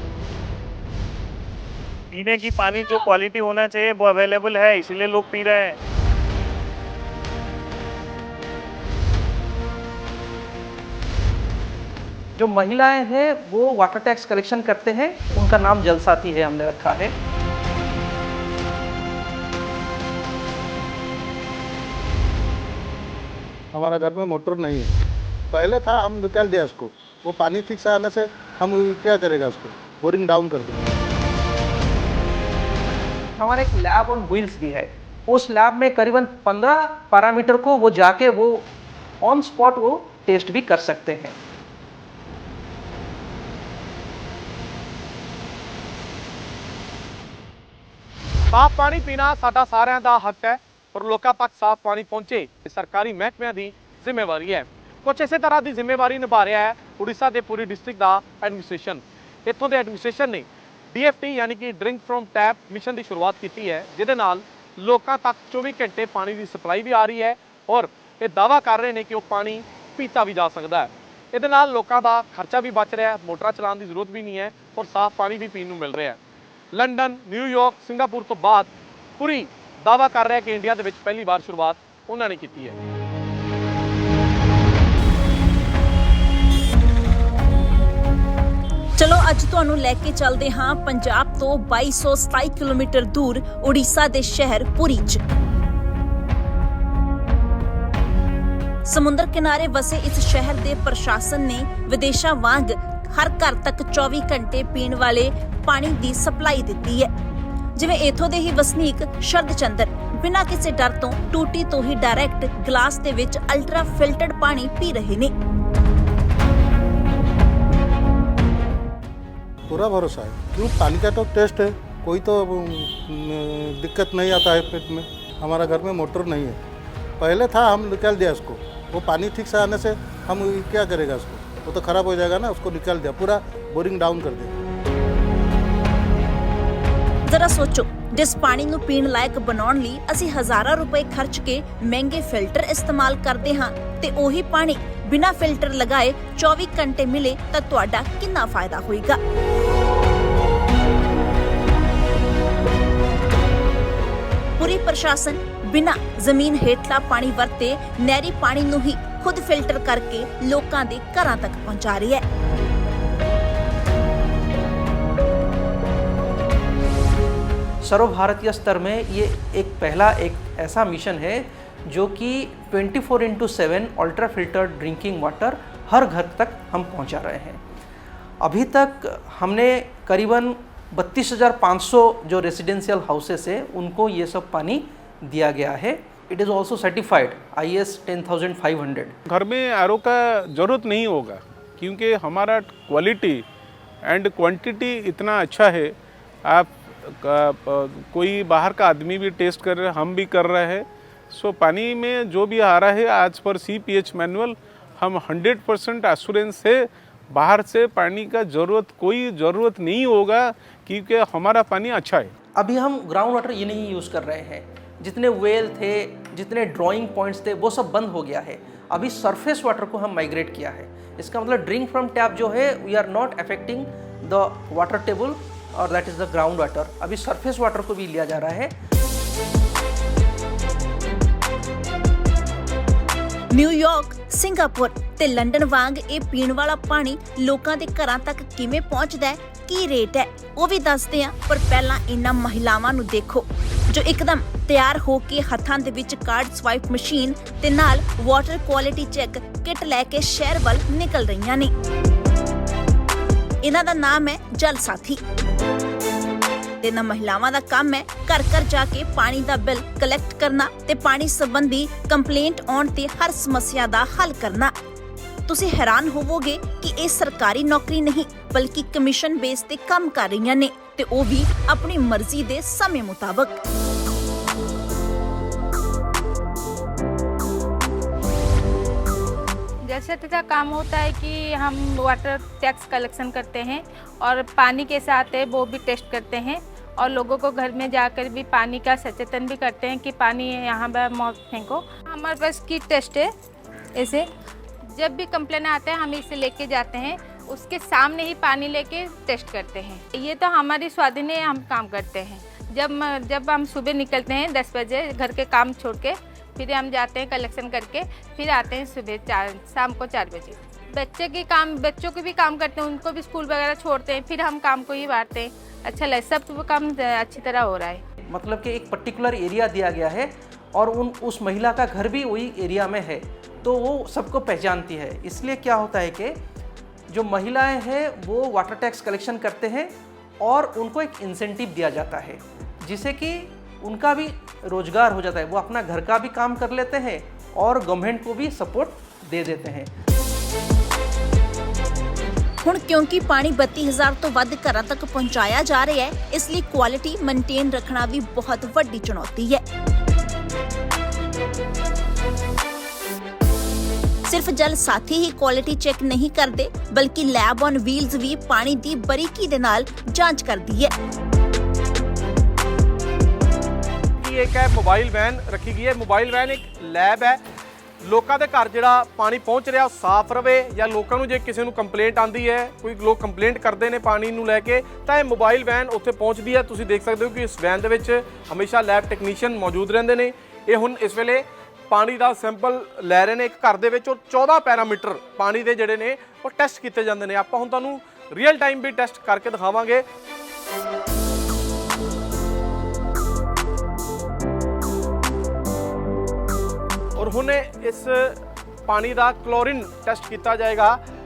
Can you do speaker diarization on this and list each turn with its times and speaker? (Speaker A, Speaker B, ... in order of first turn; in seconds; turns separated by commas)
Speaker A: 2.1-5.8, Speaker B: 12.3-17.1, Speaker C: 23.7-24.9, Speaker C: 25.5-30.8, Speaker B: 33.4-38.7, Speaker B: 39.2-41.4, Speaker D: 48.5-76.2, Speaker D: 76.7-82.8, Speaker E: 89.0-95.2, Speaker E: 98.8-107.1, Speaker E: 107.8-115.3, Speaker C: 119.7-126.6, Speaker C: 127.2-134.5, Speaker E: 137.3-149.2, Speaker E: 154.6-162.2, Speaker B: 167.8-177.6, Speaker B: 178.4-189.1, Speaker F: 189.3-193.4, Speaker F: 194.0-212.3, Speaker B: 212.5-228.7, Speaker E: 233.5-251.7, Speaker E: 253.6-255.2, Speaker E: 256.8-264.7, Speaker E: 265.5-273.6, Speaker G: 279.9-293.3, Speaker G: 293.9-294.3, Speaker G: 294.9-318.0, Speaker B: 318.3-326.4, Speaker B: 327.1-339.9, Speaker E: 342.6-349.6, Speaker E: 354.3-360.9, Speaker D: 364.2-367.4, Speaker D: 368.0-390.0, Speaker D: 397.2-401.0